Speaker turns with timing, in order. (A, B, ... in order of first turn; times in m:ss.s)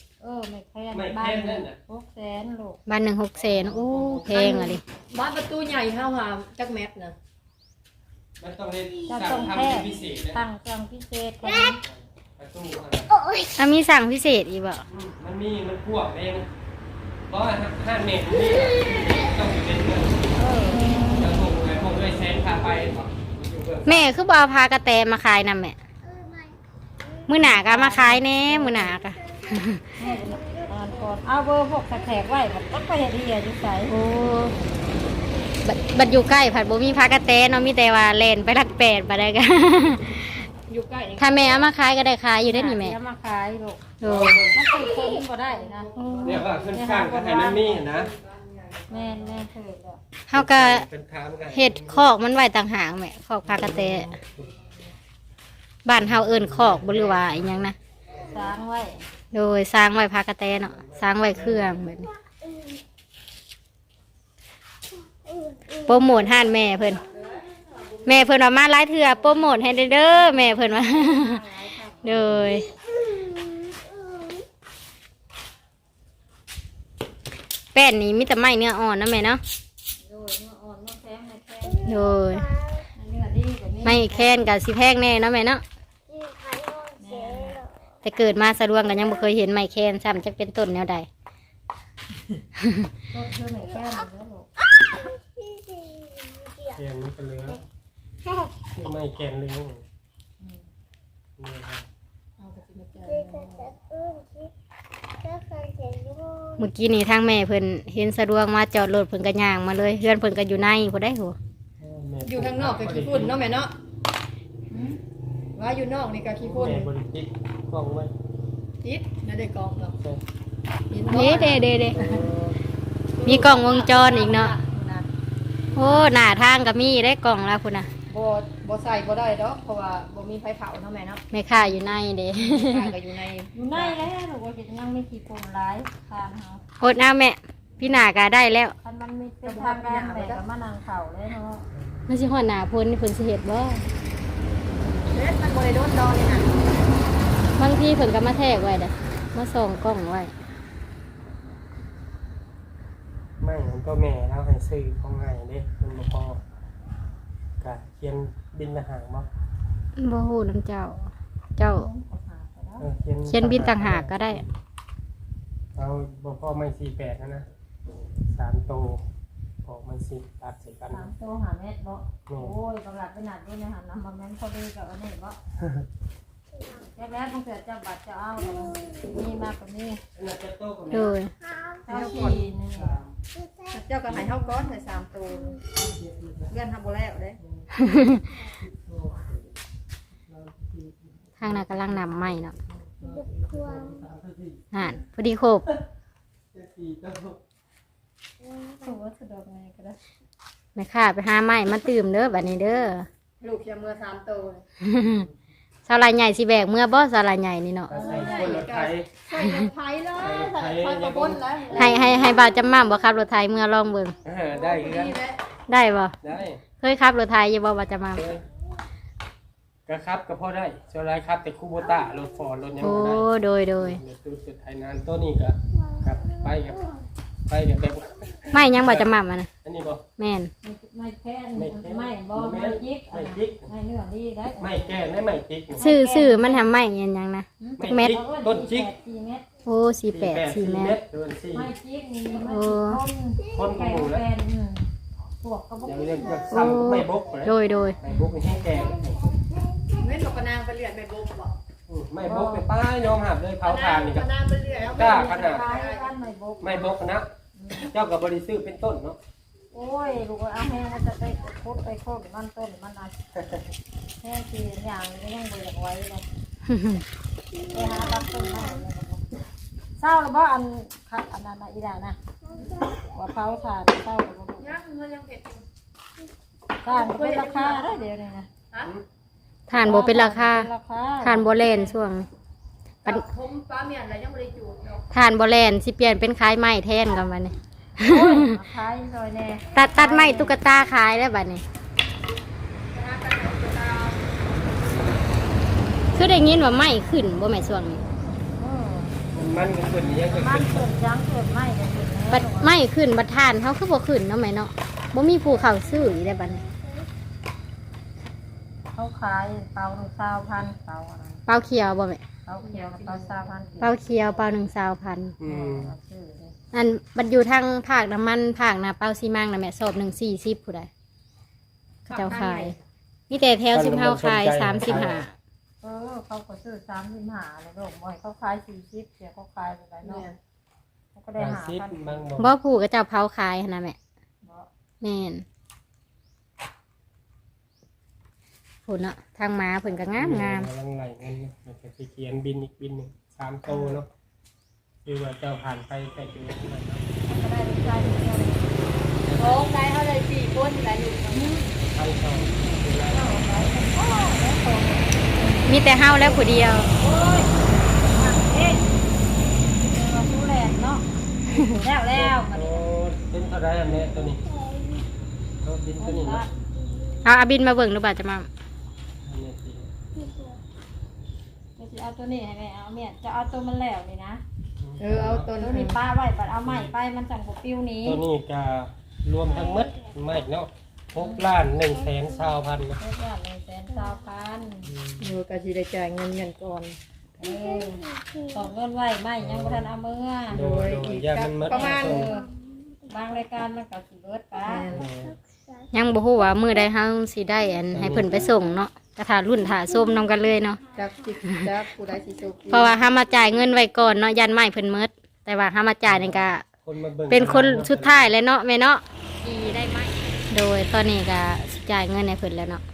0:00.2-0:02.8 A
0:00.9-0:01.8 B
0:02.9-0:04.8 C
0:03.4-0:04.6 B
0:04.2-0:04.8 A
0:05.1-0:07.2 D
0:08.4-0:10.4 B
0:09.1-0:11.8 A
0:11.8-0:13.2 B
0:13.6-0:14.8 C
0:14.9-0:16.5 B
0:17.3-0:20.3 B
0:20.4-0:20.9 A
0:21.1-0:24.1 B
0:23.9-0:25.8 C
0:27.3-0:29.8 C
0:27.4-0:29.0 A
0:30.0-0:34.0 A
0:33.9-0:34.6 C
0:35.6-0:40.3 C
0:40.7-0:41.6 D
0:41.2-0:43.0 C
0:42.4-0:47.9 A
0:44.0-0:44.5 C
0:44.1-0:44.6 B
0:45.5-0:46.6 D
0:46.0-0:46.4 C
0:46.2-0:48.1 B
0:48.0-0:49.3 D
0:48.9-0:50.0 A
0:50.3-0:50.9 C
0:50.3-0:52.1 B
0:51.5-0:54.2 C
0:53.4-0:54.5 B
0:55.8-0:57.8 C
0:56.0-0:57.7 B
0:58.2-0:59.0 A
0:59.3-1:02.1 C
1:00.6-1:01.8 B
1:05.7-1:07.1 C
1:08.0-1:11.4 C
1:09.3-1:12.4 A
1:12.0-1:12.7 C
1:12.3-1:12.6 B
1:17.7-1:19.4 C
1:20.0-1:22.0 A
1:21.8-1:22.5 C
1:22.9-1:24.4 A
1:23.8-1:25.6 C
1:26.2-1:26.8 D
1:27.0-1:27.7 A
1:28.0-1:31.1 C
1:33.1-1:34.5 A
1:36.6-1:37.6 B
1:38.6-1:39.8 B
1:41.4-1:41.9 B
1:42.4-1:44.2 D
1:45.4-1:46.4 D
1:46.5-1:51.4 C
1:51.8-1:53.4 B
1:52.2-1:53.7 D
1:54.7-1:55.0 A
1:55.6-1:56.8 D
1:56.4-1:58.1 B
1:58.8-1:59.9 D
2:00.9-2:01.6 D
2:01.1-2:02.1 C
2:01.9-2:02.6 B
2:03.2-2:04.5 C
2:03.3-2:03.6 A
2:04.1-2:05.0 A
2:05.8-2:07.9 C
2:08.1-2:11.2 D
2:11.3-2:12.9 C
2:12.7-2:14.0 D
2:13.5-2:16.6 A
2:16.8-2:18.8 C
2:18.8-2:21.6 A
2:19.4-2:20.4 D
2:22.1-2:23.8 C
2:25.1-2:26.5 D
2:27.6-2:30.3 C
2:33.4-2:36.4 B
2:37.6-2:39.3 B
2:40.0-2:41.9 C
2:41.7-2:42.9 A
2:42.8-2:44.4 B
2:43.2-2:44.4 C
2:45.8-2:47.5 B
2:48.3-2:49.0 B
2:49.6-2:51.1 B
2:50.9-2:55.4 A
2:52.3-2:52.6 B
2:56.8-3:00.0 A
3:00.2-3:01.2 B
3:00.9-3:01.3 C
3:01.8-3:03.0 A
3:02.3-3:03.2 B
3:03.6-3:05.6 D
3:04.1-3:04.4 B
3:06.0-3:06.4 B
3:06.5-3:07.4 D
3:07.8-3:08.2 C
3:08.5-3:09.4 B
3:10.3-3:14.6 B
3:11.4-3:12.6 C
3:14.7-3:15.7 C
3:16.5-3:17.4 B
3:18.5-3:20.0 A
3:20.8-3:23.1 C
3:23.4-3:24.6 D
3:24.8-3:25.3 C
3:25.9-3:28.0 C
3:27.9-3:29.1 B
3:28.0-3:32.0 D
3:30.2-3:31.9 B
3:31.7-3:34.2 C
3:34.2-3:35.2 B
3:34.5-3:35.4 D
3:35.7-3:36.2 C
3:36.2-3:36.6 B
3:36.8-3:38.3 C
3:38.2-3:38.5 B
3:39.9-3:46.9 B
3:42.8-3:44.0 C
3:47.5-3:49.1 B
3:48.5-3:49.5 C
3:49.6-3:50.1 B
3:50.2-3:50.5 C
3:50.6-3:54.9 A
3:51.6-3:53.7 B
3:54.6-3:55.8 B
3:55.8-3:56.7 A
3:55.8-3:58.2 C
3:57.6-3:59.5 A
3:57.8-3:58.9 B
3:59.6-4:01.0 C
4:00.1-4:01.7 B
4:01.5-4:04.9 A
4:02.4-4:03.0 C
4:03.5-4:04.2 B
4:05.4-4:06.4 A
4:05.8-4:09.4 B
4:06.5-4:08.0 C
4:08.1-4:08.4 A
4:10.0-4:11.5 D
4:11.9-4:14.4 B
4:12.2-4:12.7 A
4:13.6-4:16.1 D
4:14.9-4:15.7 B
4:15.0-4:16.9 A
4:16.6-4:19.2 B
4:17.6-4:17.9 A
4:19.7-4:23.2 A
4:24.2-4:26.2 A
4:26.7-4:27.0 C
4:27.6-4:29.2 A
4:30.0-4:32.2 A
4:33.0-4:34.8 A
4:34.6-4:35.6 D
4:36.8-4:38.5 A
4:36.8-4:38.0 D
4:39.7-4:40.7 C
4:39.8-4:42.0 A
4:41.2-4:42.3 C
4:43.0-4:45.0 D
4:45.1-4:48.5 C
4:48.0-4:50.6 A
4:49.7-4:51.6 C
4:52.9-4:54.3 D
4:56.1-4:58.0 C
4:58.5-4:59.2 A
4:59.3-5:00.9 B
5:00.3-5:02.7 A
5:02.3-5:06.6 C
5:08.9-5:11.4 A
5:11.5-5:12.2 C
5:12.4-5:14.0 A
5:12.6-5:13.6 D
5:13.8-5:15.4 C
5:15.4-5:15.9 B
5:15.4-5:16.6 A
5:16.7-5:20.9 C
5:22.1-5:22.8 D
5:22.1-5:22.8 C
5:23.3-5:25.3 C
5:23.7-5:25.2 B
5:25.8-5:30.3 A
5:30.0-5:30.4 D
5:31.1-5:32.3 A
5:31.4-5:32.6 B
5:32.4-5:34.0 C
5:34.4-5:34.7 A
5:35.0-5:35.4 C
5:38.9-5:40.7 C
5:40.2-5:44.1 B
5:45.0-5:47.0 B
5:47.2-5:48.8 A
5:49.2-5:49.7 B
5:49.4-5:51.5 D
5:51.3-5:51.6 A
5:51.9-5:53.3 B
5:53.1-5:55.7 A
5:55.6-5:56.9 C
5:57.0-5:57.5 A
5:58.0-5:58.8 A
5:59.8-6:02.8 A
6:02.1-6:04.6 B
6:05.6-6:06.5 B
6:06.0-6:06.5 A
6:07.2-6:08.5 C
6:09.2-6:09.9 B
6:11.8-6:14.4 A
6:14.8-6:15.6 B
6:15.0-6:15.9 D
6:15.6-6:18.2 A
6:16.6-6:16.9 B
6:18.0-6:23.0 B
6:21.2-6:21.5 A
6:23.0-6:24.9 A
6:24.8-6:25.3 B
6:25.2-6:27.0 D
6:27.4-6:30.7 A
6:29.4-6:29.9 B
6:30.5-6:32.3 B
6:30.6-6:32.3 D
6:31.7-6:32.5 A
6:33.0-6:35.0 A
6:34.7-6:35.1 D
6:34.9-6:35.4 B
6:35.9-6:40.8 C
6:37.9-6:38.6 B
6:40.9-6:42.9 D
6:42.7-6:46.6 C
6:46.1-6:48.4 B
6:47.3-6:52.8 C